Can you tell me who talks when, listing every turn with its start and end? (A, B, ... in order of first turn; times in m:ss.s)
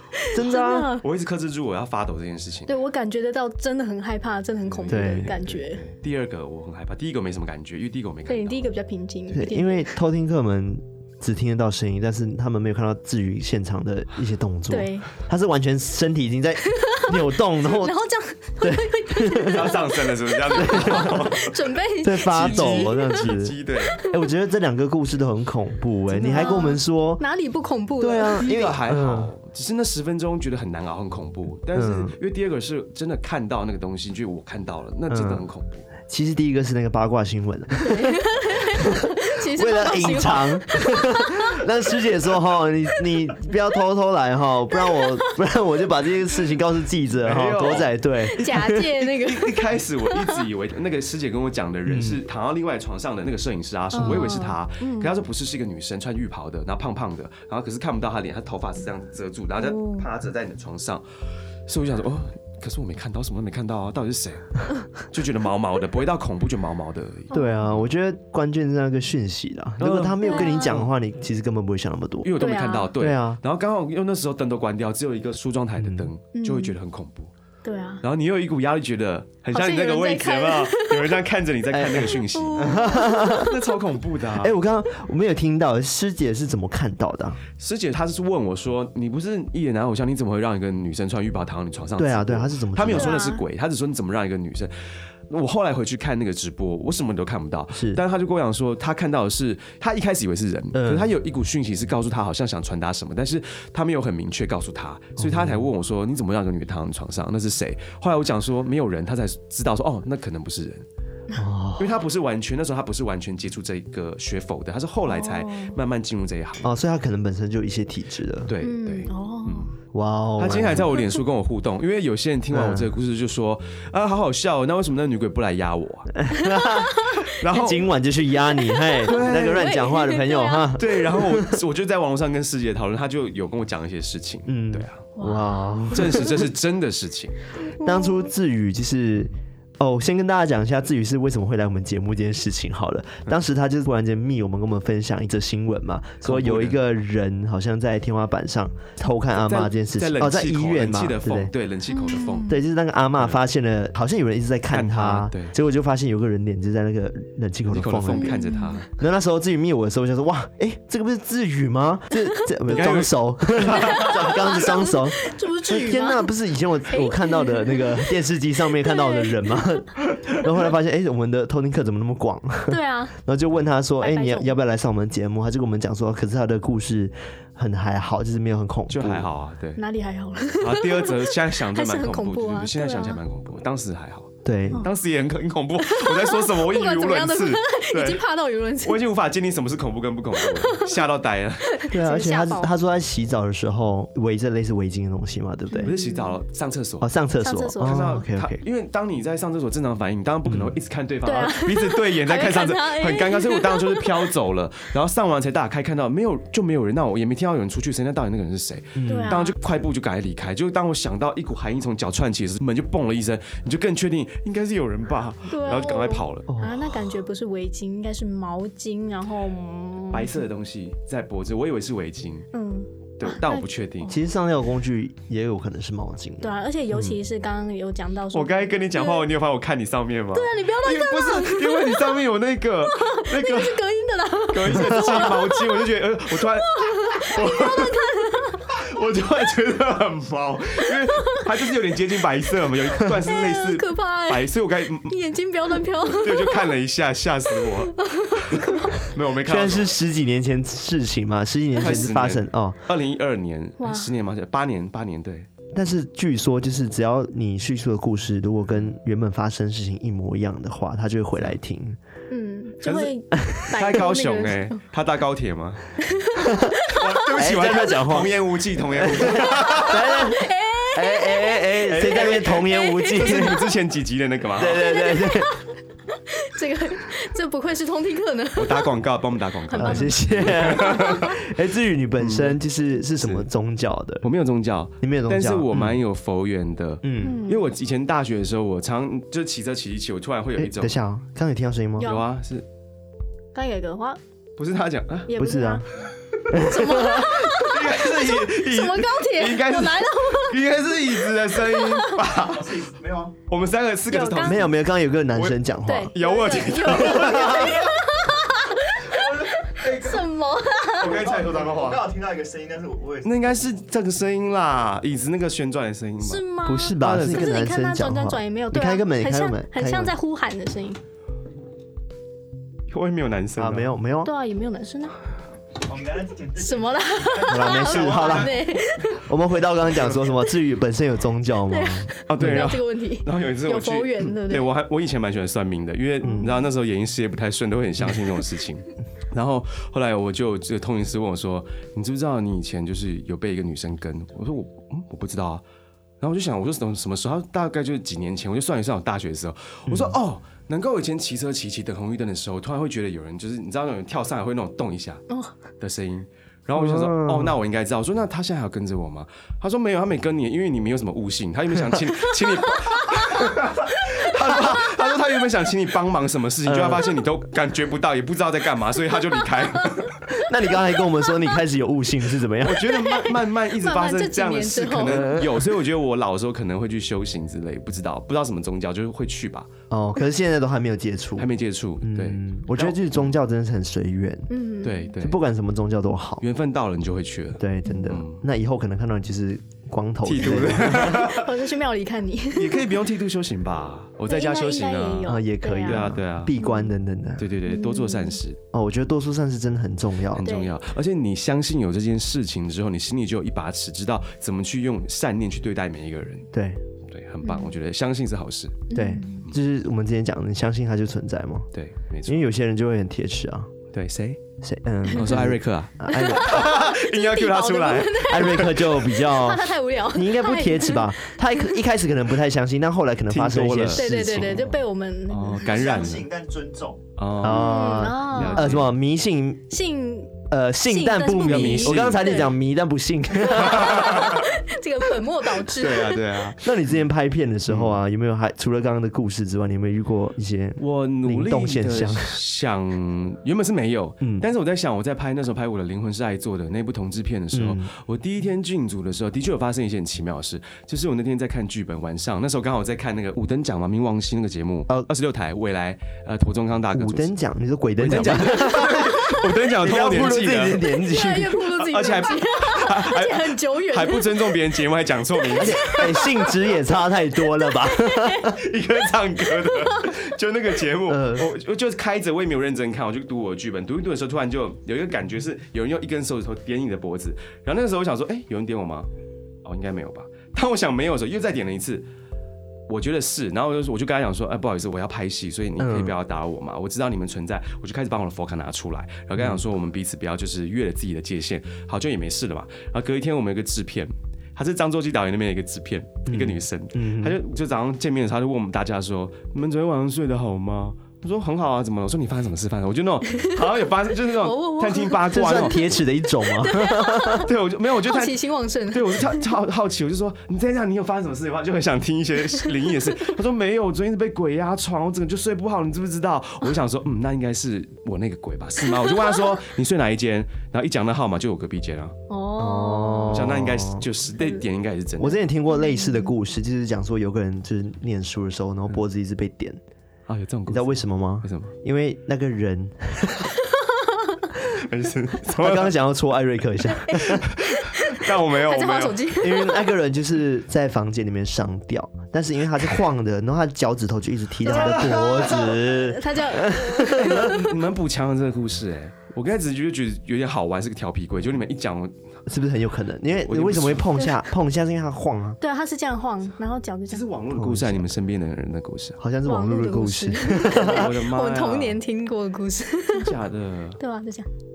0:00.2-0:01.0 A
0:00.3-0:01.0 B
0:01.0-0:02.7 C
0:02.7-0:05.8 A
0:04.7-0:08.7 C
0:04.9-0:05.4 B
0:08.3-0:09.9 A
0:09.3-0:18.0 B
0:14.7-0:15.1 A
0:16.8-0:23.3 A
0:18.6-0:19.8 B
0:19.5-0:21.6 C
0:20.6-0:21.2 B
0:22.0-0:27.2 B
0:22.2-0:24.0 C
0:26.1-0:28.5 A
0:28.0-0:29.3 B
0:28.4-0:35.9 C
0:31.7-0:32.2 B
0:35.1-0:35.4 B
0:36.1-0:48.8 B
0:37.8-0:41.6 A
0:47.2-1:01.0 C
0:48.2-0:50.4 A
0:51.9-0:52.2 B
0:53.9-0:55.1 A
0:54.0-0:54.3 B
0:59.6-1:00.1 A
1:01.7-1:07.3 C
1:07.3-1:07.7 A
1:07.3-1:12.4 B
1:09.8-1:10.9 C
1:10.2-1:10.8 A
1:12.2-1:17.3 C
1:12.4-1:12.9 A
1:13.0-1:13.4 B
1:15.8-1:16.1 B
1:16.3-1:16.8 A
1:17.6-1:18.0 A
1:18.0-1:24.6 C
1:19.5-1:21.2 A
1:21.7-1:23.5 B
1:22.1-1:23.5 A
1:24.4-1:27.4 B
1:27.6-1:34.7 C
1:32.0-1:33.2 B
1:32.9-1:33.4 A
1:35.3-1:50.8 C
1:37.7-1:38.0 B
1:40.7-1:41.1 B
1:45.2-1:45.7 B
1:51.4-1:52.0 B
1:51.8-1:56.7 C
1:55.1-1:55.8 A
1:56.6-1:58.5 B
1:58.5-1:59.7 C
1:58.6-1:59.7 A
1:59.9-2:00.9 B
2:00.4-2:06.2 C
2:02.5-2:02.9 B
2:06.2-2:11.6 B
2:06.4-2:07.3 A
2:07.2-2:07.9 C
2:08.7-2:10.8 A
2:09.0-2:09.8 C
2:10.8-2:15.1 C
2:14.5-2:16.5 B
2:15.2-2:16.2 A
2:15.9-2:17.4 C
2:17.6-2:18.3 A
2:17.8-2:31.5 B
2:26.2-2:26.8 C
2:29.4-2:32.6 C
2:31.9-2:32.6 A
2:32.5-2:38.4 B
2:34.7-2:35.5 C
2:37.7-2:38.9 C
2:38.1-2:38.8 A
2:39.0-2:59.3 B
2:42.7-2:44.6 C
2:43.8-2:46.3 A
2:46.9-2:48.0 A
2:48.8-2:49.6 A
2:52.7-2:53.2 A
2:54.0-2:54.6 A
2:58.9-2:59.8 C
2:59.8-3:03.2 A
3:00.6-3:08.2 C
3:04.4-3:04.9 B
3:05.8-3:09.0 A
3:08.8-3:11.8 C
3:10.6-3:10.9 A
3:11.7-3:12.7 A
3:11.9-3:16.0 B
3:15.7-3:16.2 A
3:15.8-3:17.1 C
3:17.0-3:18.6 B
3:17.4-3:18.2 A
3:17.8-3:36.5 C
3:20.5-3:20.8 B
3:21.2-3:24.3 A
3:29.0-3:29.4 B
3:29.1-3:29.6 A
3:35.5-3:40.4 A
3:36.5-3:36.8 B
3:40.1-3:42.5 C
3:42.5-3:43.7 A
3:43.2-3:44.2 C
3:44.1-3:46.5 B
3:46.4-3:49.3 A
3:48.3-3:53.8 C
3:50.3-3:52.2 A
3:52.8-3:55.8 A
3:54.5-3:58.0 C
3:56.6-3:58.7 A
3:58.7-4:05.2 C
4:03.1-4:04.5 A
4:05.1-4:06.7 A
4:06.1-4:10.0 C
4:08.0-4:09.1 A
4:09.4-4:12.8 B
4:11.8-4:15.5 C
4:13.8-4:14.1 A
4:15.7-4:22.0 B
4:22.3-4:24.8 A
4:22.8-4:25.9 C
4:23.4-4:23.6 B
4:26.0-4:27.2 A
4:26.4-4:26.7 B
4:26.9-4:30.3 C
4:27.4-4:28.4 B
4:29.0-4:33.6 B
4:29.4-4:33.7 A
4:31.8-4:35.1 C
4:34.6-4:35.5 B
4:34.8-4:38.9 A
4:38.6-4:41.4 C
4:39.7-4:41.3 A
4:39.8-4:44.3 B
4:42.2-4:42.6 C
4:43.2-4:43.5 C
4:44.2-4:51.0 C
4:45.0-4:46.0 B
4:47.0-4:47.4 B
4:47.2-4:47.6 A
4:50.6-4:52.1 B
4:52.0-4:52.3 A
4:52.0-4:52.7 C
4:53.5-4:54.2 A
4:54.6-4:55.3 C
4:55.3-4:55.9 A
4:55.4-4:55.9 B
4:56.5-4:57.3 B
4:56.5-5:00.6 A
4:57.0-5:02.8 C
5:01.7-5:02.2 A
5:02.3-5:03.4 D
5:03.5-5:04.7 C
5:04.1-5:04.7 A
5:04.4-5:06.1 B
5:05.3-5:05.6 C
5:05.9-5:11.3 A
5:06.1-5:08.0 C
5:09.1-5:10.2 D
5:11.0-5:12.1 C
5:11.0-5:13.4 D
5:13.2-5:16.4 C
5:16.2-5:21.0 A
5:16.6-5:20.2 B
5:17.0-5:17.6 C
5:22.9-5:23.9 C
5:23.6-5:24.3 B
5:24.2-5:25.2 A
5:25.8-5:28.5 D
5:26.6-5:29.3 A
5:27.5-5:28.6 B
5:29.3-5:32.7 B
5:31.7-5:34.7 A
5:32.3-5:45.6 C
5:36.2-5:36.5 A
5:36.2-5:36.6 B
5:46.2-5:55.2 C
5:49.9-5:50.2 B
5:55.8-6:10.2 C
5:56.8-5:57.6 B
6:03.0-6:03.3 A
6:06.7-6:07.1 B
6:10.3-6:13.0 B
6:12.6-6:19.7 C
6:12.9-6:15.4 A
6:15.0-6:15.7 B
6:19.9-6:21.5 B
6:21.4-6:23.3 C
6:22.0-6:24.5 B
6:24.5-6:25.1 A
6:24.8-6:25.4 C
6:25.2-6:26.4 B
6:26.4-6:28.4 C
6:27.6-6:31.4 B
6:30.2-6:31.5 C
6:31.0-6:32.9 A
6:32.5-6:36.6 C
6:34.3-6:36.9 A
6:35.3-6:37.5 B
6:37.4-6:38.6 C
6:37.7-6:38.4 A
6:38.7-6:40.5 B
6:40.4-6:46.5 C
6:40.4-6:40.7 A
6:46.5-6:46.8 B
6:47.1-6:48.9 C
6:47.4-6:47.7 A
6:48.9-6:49.5 A
6:48.9-6:51.7 B
6:51.7-6:52.5 C
6:52.3-6:53.7 B
6:53.9-6:54.4 C
6:54.6-6:56.7 B
6:55.1-6:59.0 C
6:56.1-7:01.7 A
6:58.2-7:04.7 B
7:03.3-7:04.7 C
7:03.9-7:05.8 A
7:05.3-7:06.3 C
7:05.6-7:07.0 D
7:07.2-7:09.0 C
7:07.4-7:09.7 B
7:07.4-7:08.8 A
7:09.7-7:10.4 A
7:10.5-7:14.4 B
7:10.9-7:12.5 A
7:11.4-7:12.5 C
7:13.6-7:16.2 A
7:13.6-7:14.4 C
7:15.7-7:16.6 C
7:16.6-7:22.4 B
7:17.7-7:18.0 C
7:20.8-7:37.4 C
7:27.5-7:27.9 B
7:36.9-7:41.6 B
7:38.0-7:40.9 C
7:39.0-7:39.3 A
7:40.9-7:44.6 A
7:41.6-7:46.6 C
7:45.6-7:46.2 A
7:45.6-7:48.6 B
7:47.8-7:48.5 A
7:48.5-7:59.1 C
7:49.6-7:50.2 A
7:51.1-7:51.5 B
7:59.6-8:02.0 C
8:02.9-8:25.9 C
8:05.8-8:06.2 B
8:16.3-8:17.4 B
8:24.4-8:25.8 A
8:25.3-8:27.5 B
8:26.6-8:27.5 A
8:27.4-8:42.2 C
8:28.1-8:29.5 A
8:42.3-8:43.5 A
8:42.6-8:44.1 B
8:43.3-8:45.4 C
8:45.2-8:49.8 B
8:45.7-8:46.3 A
8:50.3-8:51.7 C
8:50.7-8:53.5 B
8:53.8-8:54.4 A
8:54.7-8:56.0 C
8:55.5-8:57.5 B
8:57.0-8:59.9 A
8:57.3-8:59.3 C
8:59.4-9:07.6 B
9:04.7-9:07.8 A
9:04.7-9:05.7 C
9:07.1-9:12.1 C
9:12.5-9:15.6 B
9:13.4-9:14.2 C
9:15.6-9:17.2 A
9:17.1-9:19.2 C
9:17.5-9:18.1 B
9:19.2-9:21.1 B
9:19.4-9:23.3 A
9:20.6-9:22.0 C
9:23.1-9:24.0 C
9:24.0-9:24.5 A